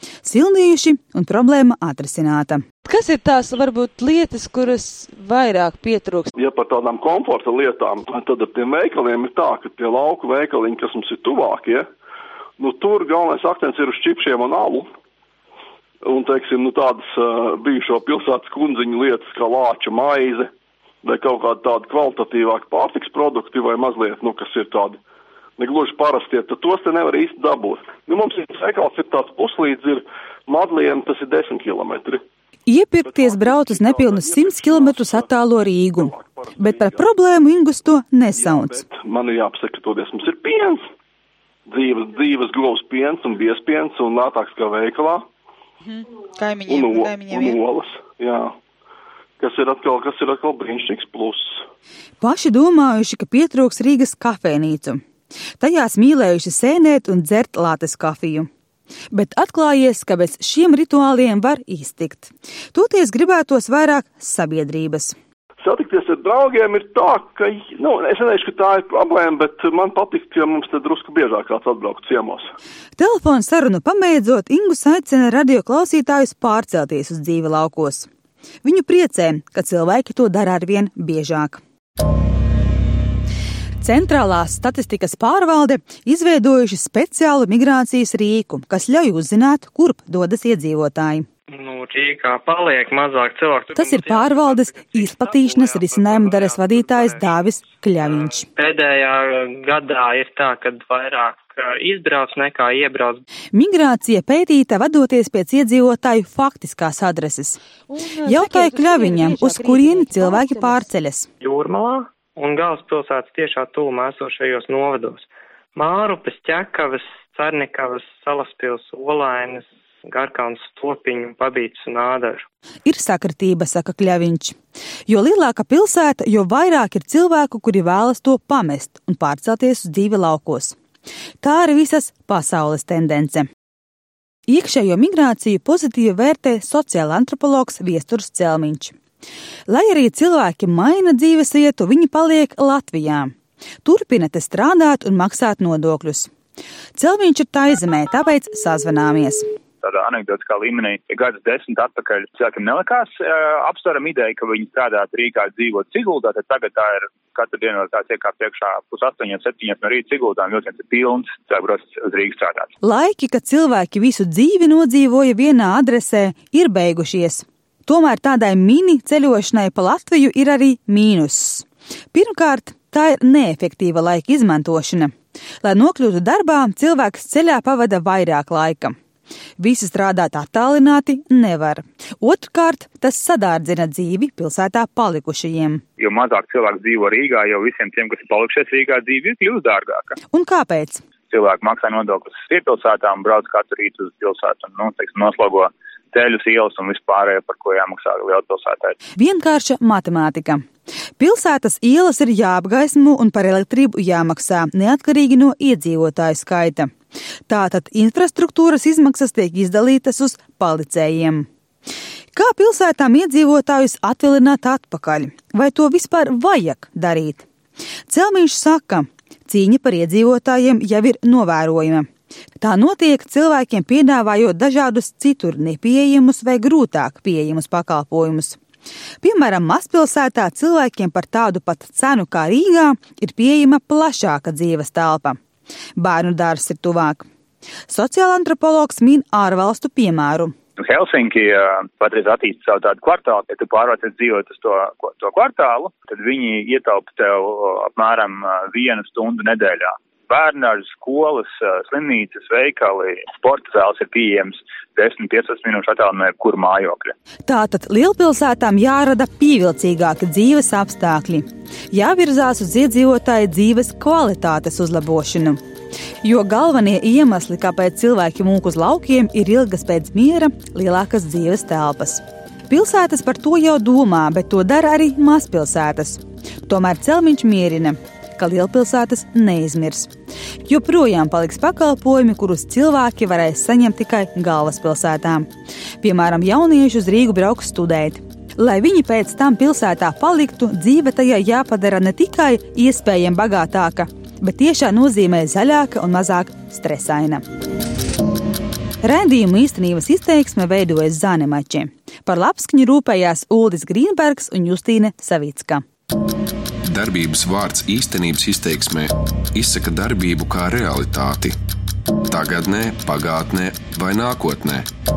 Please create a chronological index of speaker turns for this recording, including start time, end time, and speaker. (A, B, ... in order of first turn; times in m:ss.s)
0:00.2-0:02.6 A
0:02.8-0:06.3 B
0:06.4-0:11.8 C
0:12.6-0:14.8 C
0:16.0-0:20.5 C
0:21.0-0:25.0 C
0:25.6-0:32.2 C
0:32.7-0:38.8 A
0:33.0-0:35.3 C
0:35.9-0:37.1 C
0:38.3-0:40.8 C
0:41.7-0:45.2 C
0:45.9-0:47.6 B
0:46.6-0:48.5 C
0:49.4-0:51.6 C
0:52.2-0:55.0 A
0:55.6-0:58.5 A
0:59.1-1:05.1 A
1:05.6-1:12.5 C
1:13.0-1:18.1 A
1:18.6-1:21.6 A
1:23.8-1:31.2 A
1:31.5-1:43.2 D
1:33.7-1:38.4 A
1:43.5-1:47.6 A
1:47.9-1:50.9 B
1:48.2-1:51.3 A
1:51.4-2:02.4 D
2:02.8-2:04.5 A
2:05.1-2:10.7 A
2:11.4-2:13.5 A
2:14.5-2:18.9 A
2:19.7-2:23.3 A
2:23.8-2:26.3 A
2:27.0-2:29.4 A
2:29.8-2:42.7 E
2:42.8-2:58.9 A
2:59.6-3:05.8 A
3:06.0-3:10.2 E
3:10.3-3:11.0 A
3:11.3-3:19.0 E
3:19.2-3:20.6 A
3:21.2-3:26.9 A
3:27.5-3:31.5 A
3:32.3-3:37.4 A
3:38.1-3:42.0 A
3:42.6-3:48.6 A
3:49.2-3:55.4 A
3:56.0-3:57.2 A
3:57.9-4:00.5 A
4:00.8-4:17.1 E
4:17.4-4:25.6 A
4:26.2-4:40.1 A
4:40.6-4:45.5 A
4:46.0-4:57.4 A
4:59.0-5:05.8 A
5:06.8-5:11.6 F
5:12.3-5:14.8 F